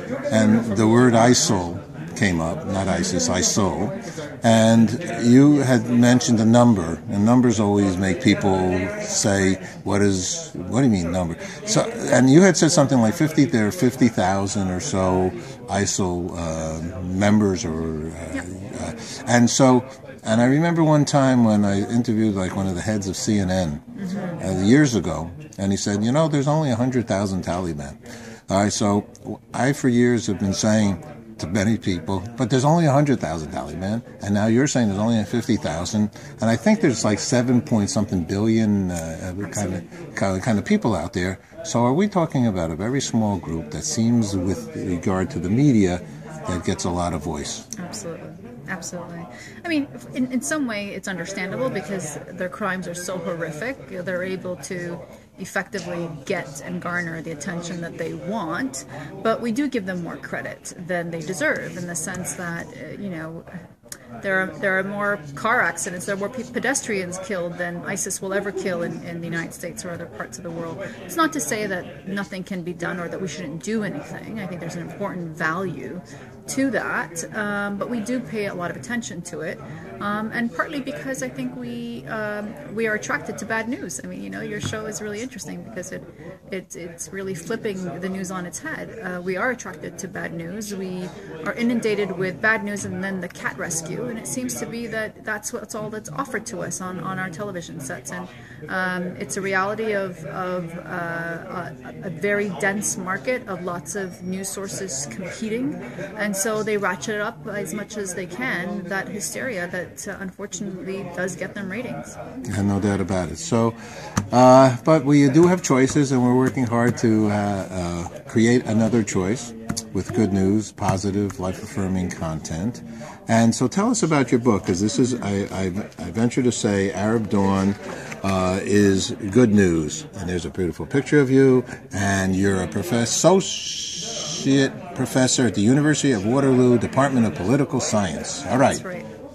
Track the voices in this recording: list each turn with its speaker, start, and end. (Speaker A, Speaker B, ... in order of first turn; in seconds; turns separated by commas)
Speaker A: 0.3-23.8, Speaker B: 24.0-24.4, Speaker A: 24.4-47.7, Speaker B: 39.4-39.8, Speaker B: 47.8-63.5, Speaker B: 64.2-112.2, Speaker A: 112.5-113.8, Speaker A: 114.3-138.8, Speaker B: 138.5-139.1